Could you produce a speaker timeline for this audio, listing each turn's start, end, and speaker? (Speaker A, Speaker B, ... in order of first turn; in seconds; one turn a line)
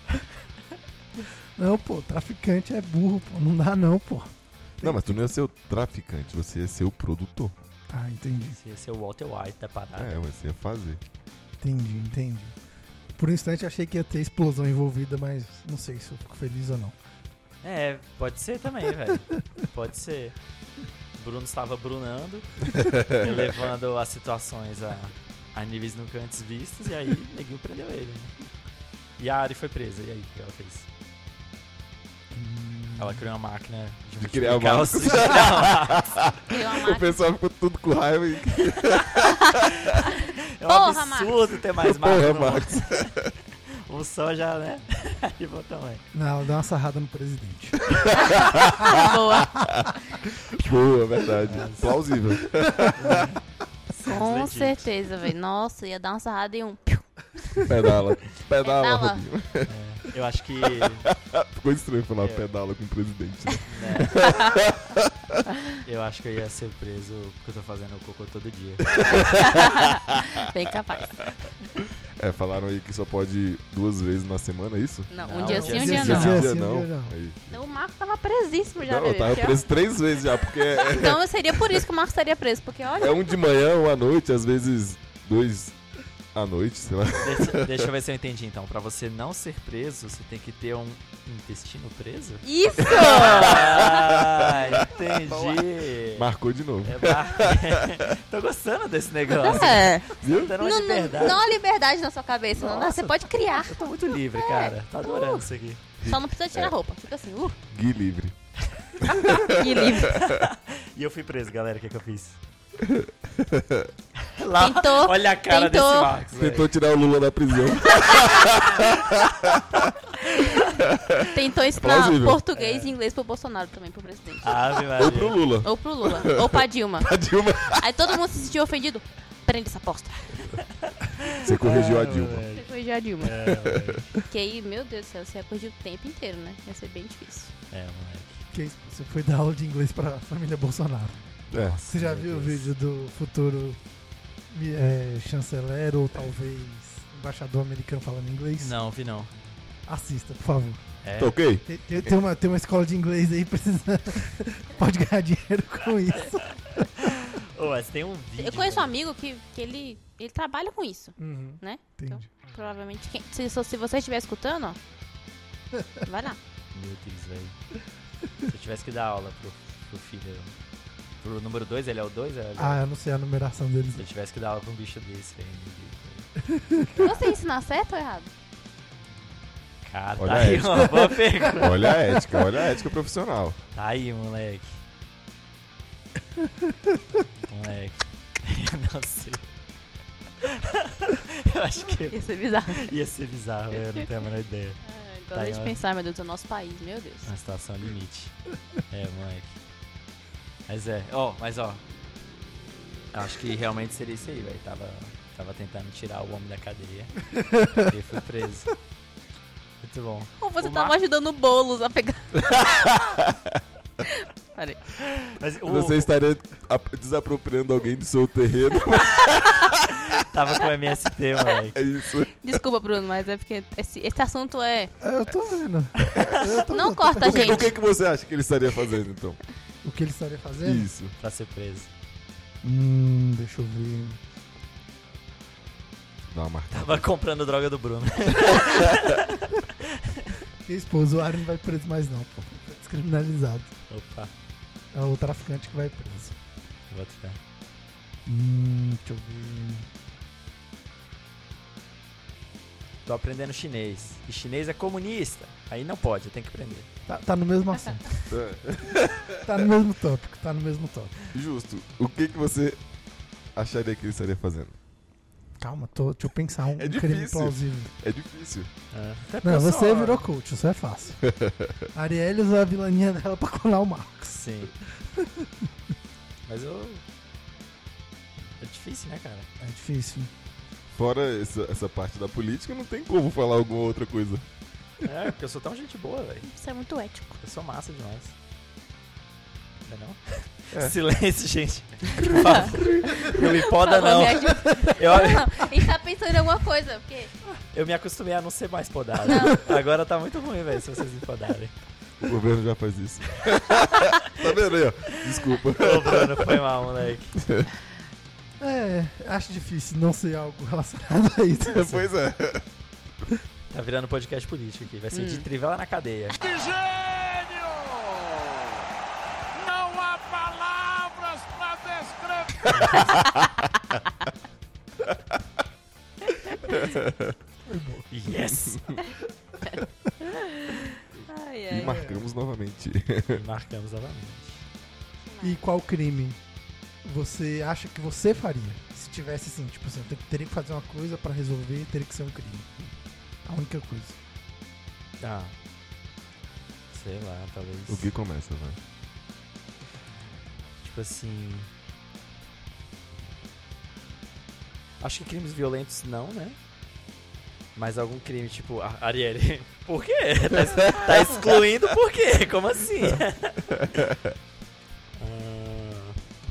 Speaker A: 1.6-5.3
Speaker B: 4.8-7.5
Speaker A: 7.9-8.6
Speaker C: 8.5-10.2
Speaker B: 9.9-11.0
Speaker A: 11.6-12.5
Speaker A: 13.2-16.9
Speaker C: 17.6-20.3
Speaker C: 21.1-28.3
Speaker B: 22.8-23.3
Speaker C: 29.2-30.9
Speaker A: 32.3-33.2
Speaker C: 33.0-36.2
Speaker B: 34.2-40.0
Speaker D: 36.5-37.2
Speaker D: 39.2-41.5
Speaker C: 39.9-43.1
Speaker B: 41.8-43.3
Speaker C: 43.7-46.0
Speaker A: 46.1-47.9
Speaker D: 48.1-49.7
Speaker B: 48.1-53.3
Speaker C: 51.5-51.9
Speaker C: 52.9-54.9
Speaker D: 54.0-57.0
Speaker B: 57.7-59.7
Speaker D: 58.6-59.2
Speaker C: 59.7-61.1
Speaker B: 60.6-65.4
Speaker C: 62.2-62.5
Speaker C: 63.7-64.3
Speaker D: 64.2-64.5
Speaker C: 65.8-69.3
Speaker B: 68.9-70.4
Speaker D: 69.1-71.2
Speaker B: 72.2-75.1
Speaker D: 75.1-76.4
Speaker C: 75.2-76.5
Speaker A: 75.4-77.2
Speaker B: 75.7-77.6
Speaker D: 77.5-79.6
Speaker B: 78.8-81.8
Speaker D: 80.7-83.2
Speaker B: 82.9-85.8
Speaker B: 86.3-87.8
Speaker C: 87.2-96.3
Speaker D: 92.4-94.0
Speaker B: 92.9-98.0
Speaker C: 96.8-101.4
Speaker D: 99.4-103.8
Speaker B: 100.2-100.6
Speaker C: 102.5-105.8
Speaker D: 104.3-105.5
Speaker B: 106.0-106.7
Speaker D: 106.0-107.6
Speaker B: 107.7-108.3
Speaker B: 109.0-110.4
Speaker D: 109.3-110.2
Speaker C: 110.1-112.4
Speaker B: 112.8-113.9
Speaker C: 114.2-116.7
Speaker D: 114.6-116.2
Speaker B: 116.3-119.9
Speaker B: 120.8-122.4
Speaker D: 121.3-124.6
Speaker C: 122.5-122.9
Speaker C: 124.4-125.4
Speaker B: 125.0-128.1
Speaker D: 125.6-127.1
Speaker D: 127.7-130.4
Speaker B: 130.3-130.6
Speaker C: 130.8-134.1
Speaker B: 131.3-132.4
Speaker D: 132.5-133.5
Speaker B: 133.4-133.9
Speaker D: 134.2-137.5
Speaker C: 137.7-138.4
Speaker A: 138.5-141.2
Speaker B: 141.5-141.8
Speaker C: 141.5-142.7
Speaker A: 141.8-143.8
Speaker A: 144.5-148.8
Speaker C: 148.6-149.3
Speaker A: 149.9-150.8
Speaker C: 151.0-151.4
Speaker B: 151.2-152.1
Speaker A: 151.6-156.9
Speaker C: 156.9-158.9
Speaker D: 158.4-164.8
Speaker A: 161.2-162.2
Speaker D: 166.0-166.4
Speaker C: 166.7-167.6
Speaker C: 168.5-170.5
Speaker C: 171.2-172.8
Speaker A: 172.6-174.0
Speaker C: 173.9-176.3
Speaker A: 176.5-177.1
Speaker D: 177.0-178.3
Speaker C: 179.8-181.9
Speaker B: 180.2-183.6
Speaker C: 183.7-184.7
Speaker C: 187.5-189.4
Speaker C: 190.4-194.8
Speaker D: 192.1-192.9
Speaker D: 193.8-194.1
Speaker D: 194.8-197.3
Speaker C: 195.3-195.8
Speaker C: 197.2-198.3
Speaker C: 198.9-199.6
Speaker C: 200.7-201.8
Speaker C: 203.1-207.2
Speaker A: 207.3-207.9
Speaker C: 207.8-208.7
Speaker C: 209.8-210.9
Speaker D: 210.4-212.9
Speaker B: 212.5-213.4
Speaker D: 214.0-214.8
Speaker C: 215.0-216.1
Speaker B: 215.6-220.1
Speaker C: 220.2-221.8
Speaker B: 221.7-222.3
Speaker D: 222.4-224.9
Speaker A: 225.0-227.7
Speaker D: 226.5-227.7
Speaker B: 227.2-229.4
Speaker A: 229.8-230.9
Speaker B: 230.6-231.1
Speaker C: 231.2-231.9
Speaker A: 232.6-234.2
Speaker B: 236.2-237.1
Speaker C: 236.7-240.3
Speaker B: 238.6-238.9
Speaker A: 240.6-243.7
Speaker C: 243.9-244.3
Speaker A: 244.9-246.3
Speaker C: 246.9-247.4
Speaker A: 248.2-249.9
Speaker C: 253.1-256.9
Speaker A: 257.1-258.2
Speaker B: 258.3-259.7
Speaker A: 259.4-261.3
Speaker B: 261.3-262.8
Speaker B: 263.5-264.8
Speaker A: 265.6-267.9
Speaker B: 266.8-268.7
Speaker C: 268.9-270.2
Speaker A: 269.4-271.2
Speaker B: 271.2-271.9
Speaker A: 271.9-274.5
Speaker C: 274.3-274.7
Speaker A: 275.1-275.5
Speaker C: 276.5-277.0
Speaker C: 278.6-279.5
Speaker A: 279.6-280.3
Speaker B: 280.9-284.4
Speaker C: 285.0-286.5
Speaker D: 286.4-287.4
Speaker C: 287.4-288.3
Speaker C: 289.8-295.7
Speaker B: 292.2-293.2
Speaker D: 292.4-297.3
Speaker C: 297.7-301.7
Speaker D: 299.2-299.7
Speaker B: 302.2-306.5
Speaker C: 305.7-307.4
Speaker B: 307.3-307.7
Speaker A: 308.6-312.1
Speaker B: 311.6-312.6
Speaker C: 313.7-316.4
Speaker D: 315.1-315.4
Speaker E: 316.4-318.8
Speaker E: 319.5-323.2
Speaker C: 322.7-323.2
Speaker D: 322.9-323.4
Speaker B: 326.7-327.3
Speaker A: 327.6-328.1
Speaker C: 328.1-328.9
Speaker B: 328.5-329.0
Speaker D: 329.6-332.0
Speaker B: 331.7-333.4
Speaker A: 331.7-332.2
Speaker C: 333.3-334.6
Speaker D: 335.2-335.6
Speaker A: 335.4-336.4
Speaker A: 337.0-342.9
Speaker A: 343.4-344.1
Speaker C: 345.2-345.5
Speaker C: 346.9-348.1
Speaker B: 347.9-348.8
Speaker C: 350.8-351.7
Speaker C: 355.0-356.6
Speaker C: 357.8-363.7
Speaker B: 363.8-364.3
Speaker C: 365.2-366.2